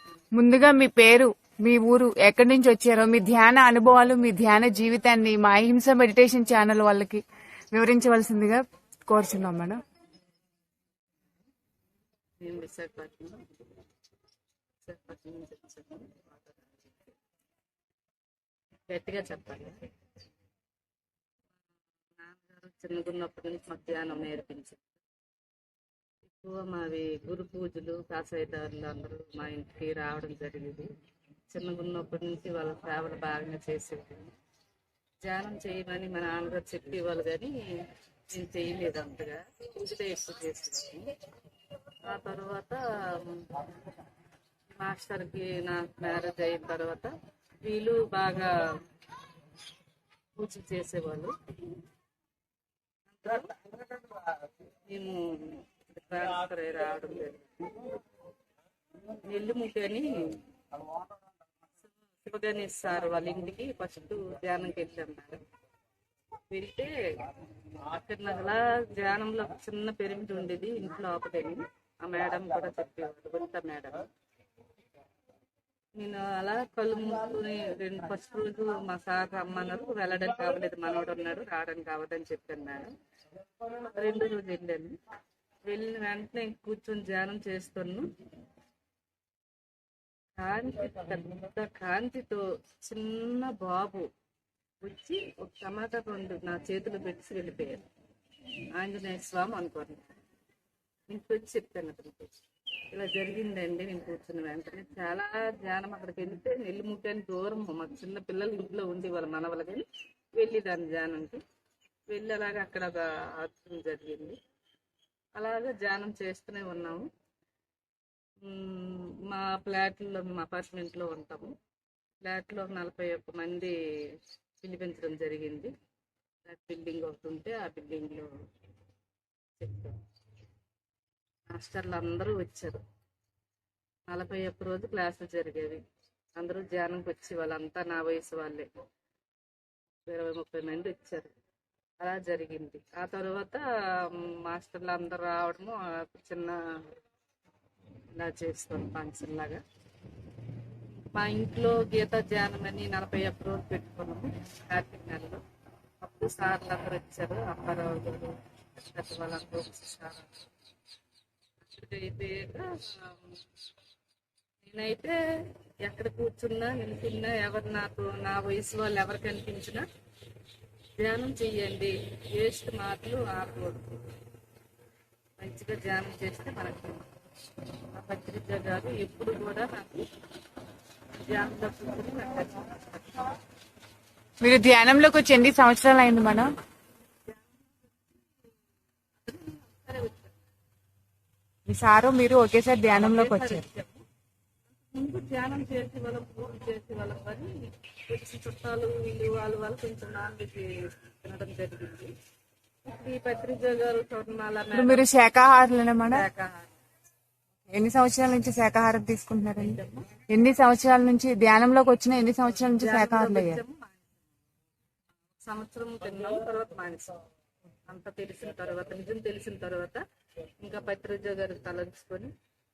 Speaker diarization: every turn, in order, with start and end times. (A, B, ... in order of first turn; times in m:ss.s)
0:00.4-0:09.8 A
0:12.4-0:13.5 B
0:14.8-0:17.1 B
0:18.9-0:19.8 B
0:22.2-0:24.8 B
0:26.3-0:30.9 B
0:31.5-0:34.4 B
0:35.2-0:41.1 B
0:42.1-0:43.7 B
0:44.8-0:47.1 B
0:47.6-0:48.8 B
0:50.4-0:51.3 B
0:53.1-0:53.6 B
0:54.9-0:57.7 B
0:59.2-1:00.4 B
1:02.2-1:05.4 B
1:06.5-1:14.1 B
1:16.0-1:22.9 B
1:23.9-1:25.0 B
1:25.7-1:28.1 B
1:30.4-1:34.1 B
1:34.8-1:37.8 B
1:38.8-1:40.1 B
1:41.1-1:42.3 B
1:42.9-1:51.4 B
1:52.1-1:54.4 B
1:55.4-1:57.1 B
1:58.4-2:01.5 B
2:02.2-2:05.7 B
2:06.5-2:08.3 B
2:09.6-2:10.0 B
2:11.5-2:12.8 B
2:14.1-2:15.8 B
2:16.4-2:18.7 B
2:20.1-2:21.3 B
2:22.0-2:27.0 B
2:28.2-2:29.6 B
2:31.1-2:35.4 B
2:36.0-2:40.4 B
2:41.6-2:43.4 B
2:44.6-2:49.9 B
2:51.0-2:54.0 B
2:55.4-2:57.1 B
2:57.9-3:00.1 B
3:01.2-3:03.3 B
3:04.4-3:06.5 A
3:07.3-3:07.6 B
3:09.2-3:10.3 B
3:11.7-3:13.6 A
3:12.9-3:14.0 B
3:14.9-3:22.1 B
3:22.9-3:25.0 B
3:24.7-3:26.2 A
3:26.1-3:26.7 B
3:27.7-3:33.6 A
3:29.6-3:30.1 B
3:32.8-3:34.0 B
3:35.4-3:37.2 B
3:37.9-3:40.0 B
3:40.6-3:42.3 B